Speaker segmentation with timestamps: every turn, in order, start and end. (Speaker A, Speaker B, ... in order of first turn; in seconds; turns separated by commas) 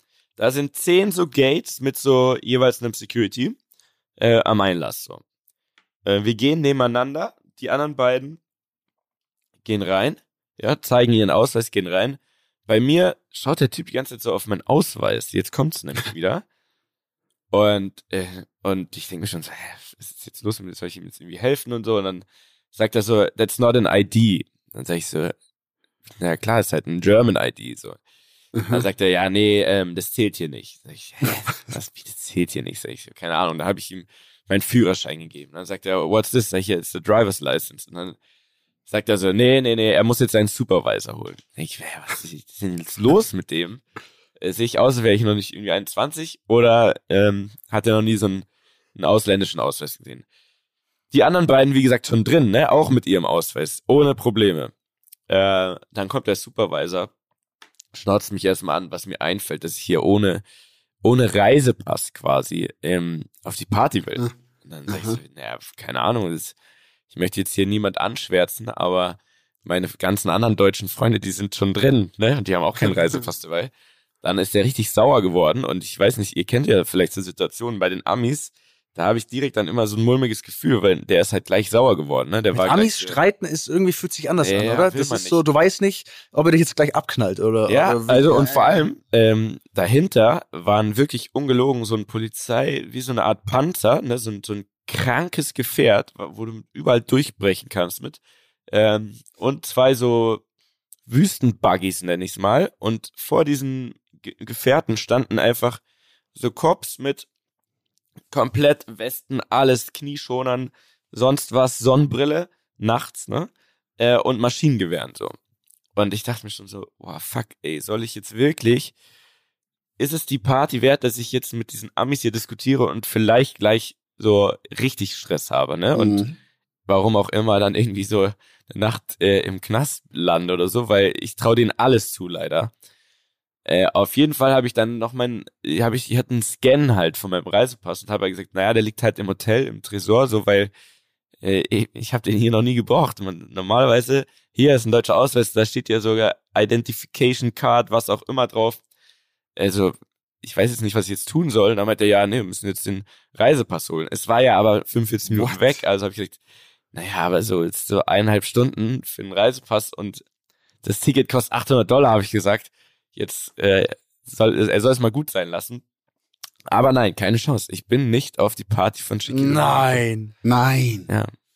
Speaker A: 0.4-3.6, Speaker A: 4.2-5.2, Speaker A: 6.0-8.4, Speaker A: 9.6-16.4, Speaker A: 17.5-25.3, Speaker A: 26.2-28.0, Speaker B: 28.5-28.8, Speaker A: 28.7-38.2, Speaker A: 38.9-43.8, Speaker A: 44.4-50.2, Speaker A: 51.1-54.7, Speaker A: 55.3-57.1, Speaker A: 57.9-60.4, Speaker A: 61.0-66.5, Speaker B: 64.9-65.2, Speaker A: 67.1-73.7, Speaker A: 74.2-83.2, Speaker C: 82.5-88.5, Speaker A: 84.4-85.4, Speaker A: 87.7-100.4, Speaker B: 88.4-88.9, Speaker A: 101.1-105.8, Speaker A: 106.3-107.3, Speaker A: 108.3-115.4, Speaker A: 115.9-118.9, Speaker A: 120.0-126.2, Speaker B: 125.9-126.3, Speaker A: 126.9-132.7, Speaker A: 133.7-140.7, Speaker A: 141.4-148.8, Speaker A: 149.6-156.4, Speaker B: 155.2-155.8, Speaker A: 156.9-160.2, Speaker A: 160.8-165.8, Speaker A: 166.7-170.0, Speaker C: 169.3-170.3, Speaker B: 170.4-171.1